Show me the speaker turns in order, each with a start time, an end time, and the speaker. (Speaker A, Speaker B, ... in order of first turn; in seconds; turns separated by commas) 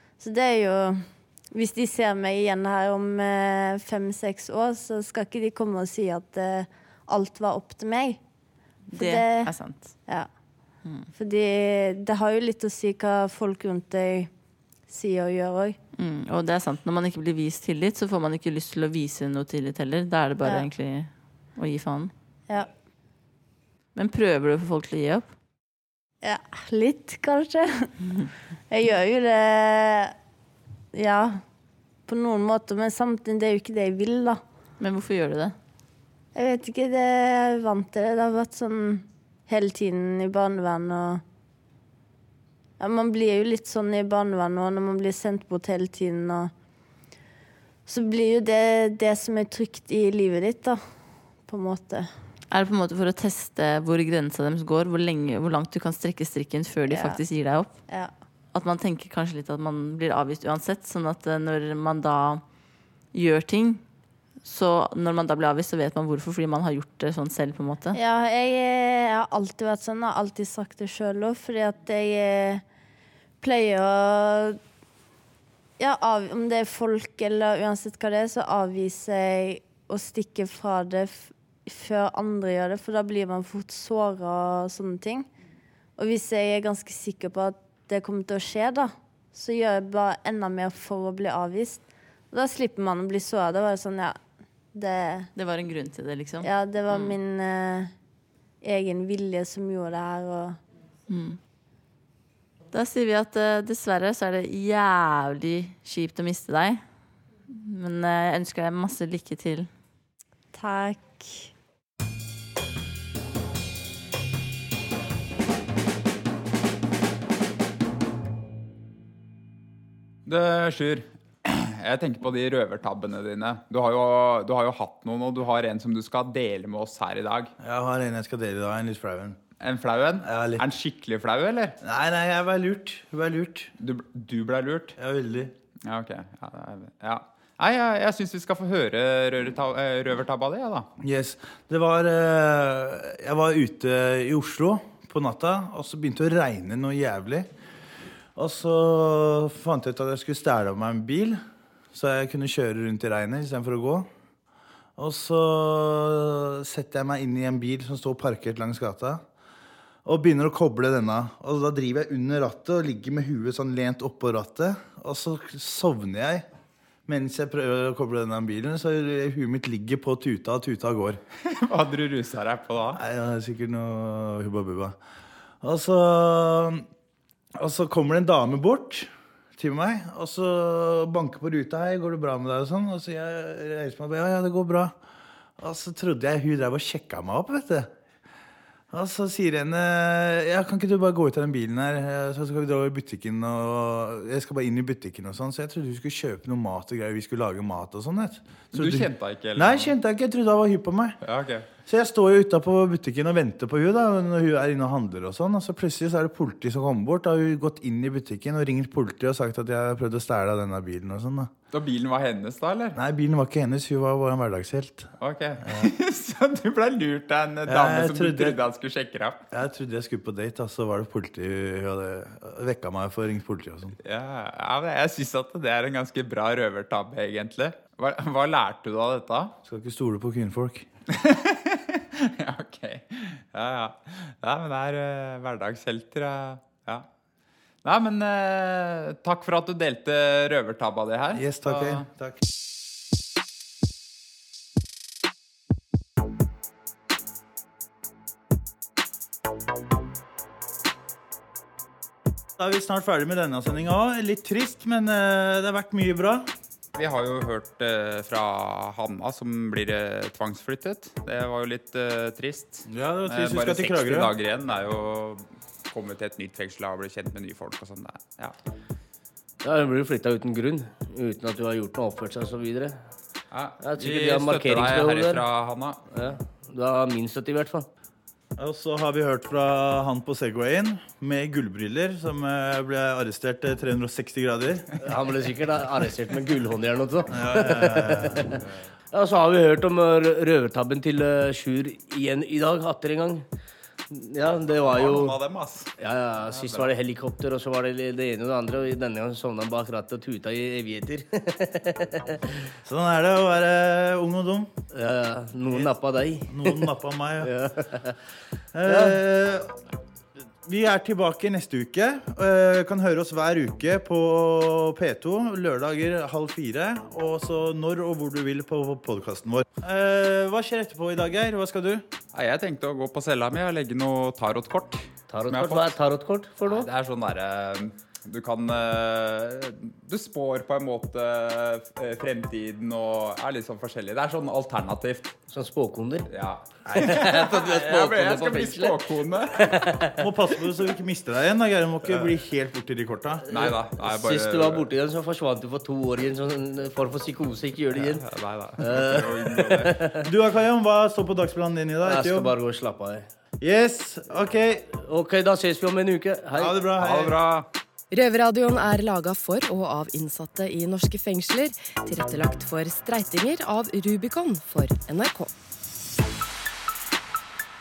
Speaker A: 0.2-8.2, Speaker B: 8.9-9.9, Speaker A: 9.0-9.5, Speaker B: 10.8-11.1, Speaker A: 11.2-14.3, Speaker A: 14.9-15.8, Speaker B: 15.9-22.1, Speaker B: 23.9-25.3, Speaker A: 26.2-27.9, Speaker A: 28.7-30.1, Speaker A: 30.9-31.4, Speaker A: 32.1-34.4, Speaker B: 34.8-35.5, Speaker A: 36.3-41.2, Speaker A: 42.8-46.5, Speaker A: 47.9-50.8, Speaker A: 51.5-52.1, Speaker B: 52.5-57.7, Speaker A: 56.9-57.2, Speaker B: 58.5-62.4, Speaker B: 63.1-63.8, Speaker B: 64.4-68.0, Speaker A: 67.9-72.6, Speaker A: 73.4-74.6, Speaker A: 75.8-85.3, Speaker A: 86.0-94.2, Speaker A: 94.7-95.3, Speaker B: 95.3-97.1, Speaker A: 96.4-97.9, Speaker A: 98.6-100.6, Speaker B: 101.1-101.4, Speaker B: 102.7-106.8, Speaker B: 107.5-109.7, Speaker A: 110.5-111.5, Speaker C: 120.2-127.5, Speaker D: 127.6-129.4, Speaker C: 129.6-131.8, Speaker D: 130.2-130.6, Speaker D: 131.8-133.7, Speaker C: 133.8-134.9, Speaker D: 135.0-135.5, Speaker C: 135.8-140.9, Speaker D: 141.0-147.5, Speaker D: 148.3-151.4, Speaker D: 151.9-154.1, Speaker D: 155.0-159.2, Speaker D: 160.0-166.4, Speaker D: 167.1-171.2, Speaker C: 171.4-173.0, Speaker D: 172.9-175.0, Speaker D: 175.6-176.8, Speaker D: 177.6-184.9, Speaker D: 185.6-187.9, Speaker D: 188.9-201.2, Speaker C: 198.7-199.9, Speaker C: 201.2-201.7, Speaker D: 201.8-211.5, Speaker C: 211.7-213.0, Speaker D: 212.9-215.1, Speaker C: 215.2-219.4, Speaker D: 215.6-215.9, Speaker D: 217.7-218.6, Speaker D: 219.5-223.9, Speaker C: 224.0-229.5, Speaker D: 229.6-230.9, Speaker C: 231.1-237.1, Speaker C: 237.8-242.0, Speaker D: 241.3-242.4, Speaker D: 252.6-256.5, Speaker C: 256.9-268.5, Speaker D: 262.9-264.3, Speaker E: 269.6-273.0, Speaker C: 273.5-276.1, Speaker E: 273.8-275.4, Speaker E: 276.1-277.9, Speaker D: 278.6-284.9, Speaker E: 285.0-288.6, Speaker D: 287.3-288.5, Speaker E: 289.1-293.4, Speaker E: 294.1-295.3, Speaker C: 294.9-295.9, Speaker E: 296.0-302.4, Speaker C: 296.4-296.9, Speaker D: 302.8-304.7, Speaker E: 304.9-306.8, Speaker D: 306.5-307.5, Speaker E: 307.4-308.1, Speaker D: 308.7-309.7, Speaker E: 308.9-309.2, Speaker D: 310.6-322.0, Speaker C: 322.3-326.0, Speaker E: 325.3-326.9, Speaker C: 326.6-335.4, Speaker E: 335.5-336.3, Speaker C: 336.3-339.6, Speaker D: 336.9-337.6, Speaker E: 336.9-338.9, Speaker E: 339.5-340.2, Speaker D: 340.2-343.7, Speaker C: 343.5-344.9, Speaker E: 344.0-348.2, Speaker C: 348.0-349.9, Speaker E: 348.8-350.2, Speaker D: 350.2-352.5, Speaker E: 352.1-353.3, Speaker D: 353.6-354.9, Speaker E: 354.9-356.7, Speaker D: 356.5-357.4, Speaker C: 357.0-357.7, Speaker F: 358.1-365.5